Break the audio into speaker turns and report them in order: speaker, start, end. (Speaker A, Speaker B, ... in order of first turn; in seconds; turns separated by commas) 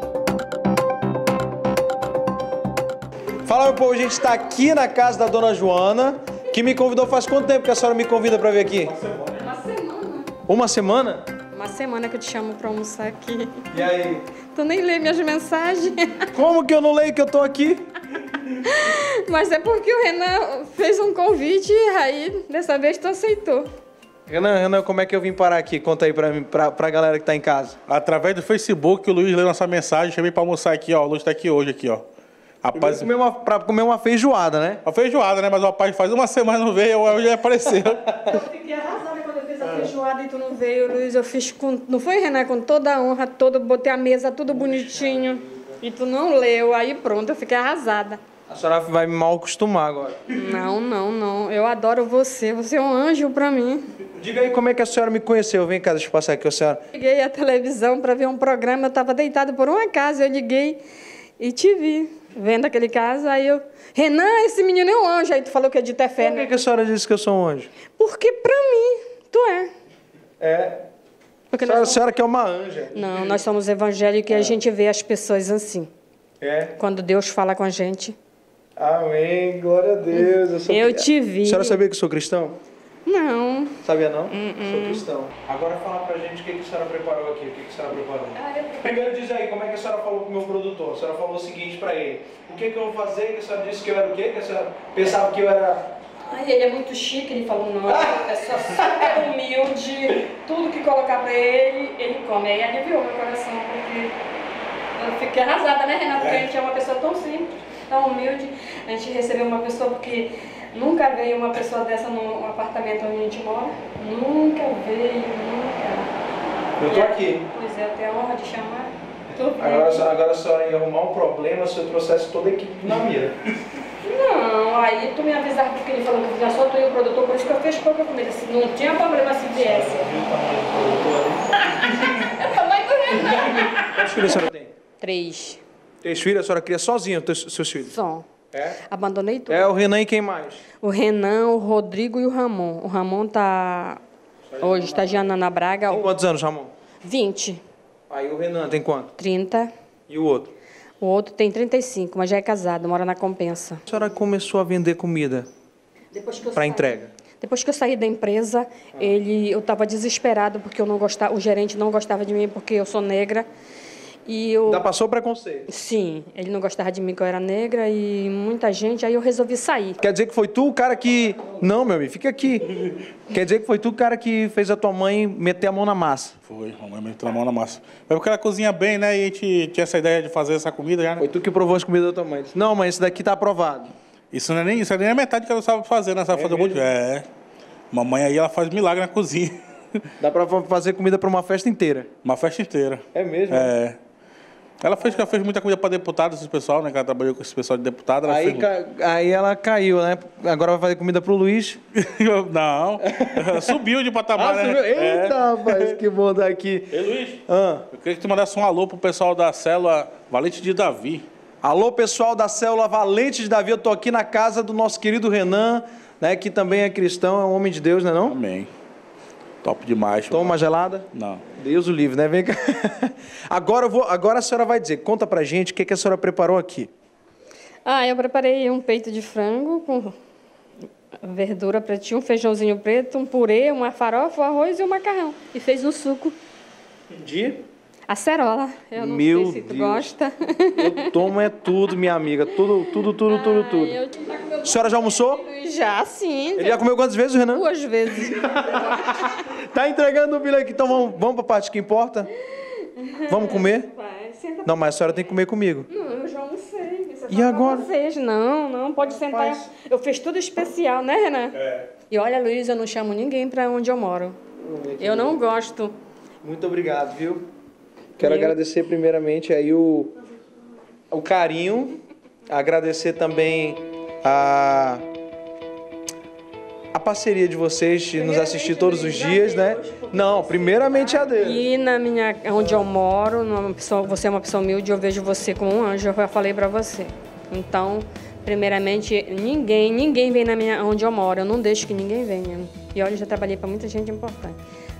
Speaker A: 3.4-8.9, Speaker B: 8.8-9.4, Speaker C: 9.4-10.3, Speaker A: 10.5-11.2, Speaker C: 11.5-13.7, Speaker A: 13.7-14.2, Speaker C: 14.5-16.3, Speaker A: 16.3-17.8, Speaker C: 18.5-23.7, Speaker A: 24.3-27.8, Speaker B: 27.9-32.0, Speaker B: 32.6-33.1, Speaker A: 32.7-34.8, Speaker B: 34.8-38.4, Speaker C: 38.2-48.2, Speaker A: 48.5-50.3, Speaker C: 50.3-53.9, Speaker A: 54.1-56.8, Speaker C: 56.9-60.8, Speaker C: 61.4-66.5, Speaker A: 66.2-67.7, Speaker C: 68.0-69.7, Speaker A: 70.4-70.8, Speaker C: 71.5-72.0, Speaker A: 71.6-73.4, Speaker C: 72.9-75.9, Speaker A: 74.3-74.6, Speaker A: 76.4-76.7, Speaker C: 76.8-78.2, Speaker A: 78.8-82.6, Speaker C: 80.1-81.8, Speaker C: 83.0-83.8, Speaker A: 83.8-95.8, Speaker C: 84.3-85.0, Speaker C: 88.3-89.1, Speaker C: 96.2-104.1, Speaker A: 97.9-99.0, Speaker C: 104.9-116.1, Speaker A: 116.8-117.4, Speaker C: 116.8-120.1, Speaker A: 119.6-123.4, Speaker C: 124.0-130.0, Speaker A: 129.5-131.4, Speaker C: 131.7-133.9, Speaker A: 133.2-134.7, Speaker C: 135.0-135.6, Speaker A: 136.0-137.9, Speaker C: 137.8-138.3, Speaker A: 138.5-138.8, Speaker C: 138.8-139.7, Speaker A: 139.5-140.6, Speaker C: 140.8-144.0, Speaker C: 144.6-146.1, Speaker A: 145.9-146.7, Speaker C: 147.0-147.6, Speaker A: 148.1-149.1, Speaker C: 149.2-149.7, Speaker A: 150.1-150.5, Speaker C: 151.0-153.8, Speaker A: 153.9-155.5, Speaker C: 156.1-163.5, Speaker A: 156.5-157.1, Speaker C: 164.2-164.8, Speaker A: 164.7-165.7, Speaker C: 165.7-170.0, Speaker A: 170.0-176.3, Speaker B: 176.5-181.2, Speaker A: 181.2-183.9, Speaker B: 184.3-187.3, Speaker A: 186.3-186.8, Speaker B: 187.9-190.1, Speaker A: 190.2-192.1, Speaker B: 192.2-194.0, Speaker A: 193.1-193.7, Speaker B: 194.8-198.7, Speaker A: 198.2-201.8, Speaker B: 201.9-206.0, Speaker A: 203.1-203.7, Speaker A: 204.3-207.8, Speaker B: 206.9-207.4, Speaker B: 207.9-211.2, Speaker A: 211.6-218.4, Speaker B: 218.2-218.7, Speaker B: 219.6-220.6, Speaker A: 220.3-226.9, Speaker B: 221.1-221.4, Speaker C: 227.8-230.1, Speaker C: 231.2-236.3, Speaker A: 237.1-237.6, Speaker C: 238.1-241.2, Speaker A: 238.9-240.1, Speaker A: 240.8-244.0, Speaker C: 242.6-246.8, Speaker A: 244.6-245.4, Speaker A: 246.6-247.6, Speaker C: 247.5-249.2, Speaker A: 248.5-252.3, Speaker C: 252.6-255.0, Speaker A: 253.3-253.9, Speaker A: 254.6-255.9, Speaker C: 255.9-261.6, Speaker A: 257.3-257.9, Speaker A: 259.0-259.7, Speaker B: 261.6-261.8, Speaker C: 262.1-264.4, Speaker A: 264.6-265.4, Speaker C: 265.0-265.9, Speaker A: 266.4-267.5, Speaker A: 268.2-270.1, Speaker C: 268.2-268.6, Speaker A: 271.1-275.0, Speaker A: 276.9-281.6, Speaker C: 278.1-294.6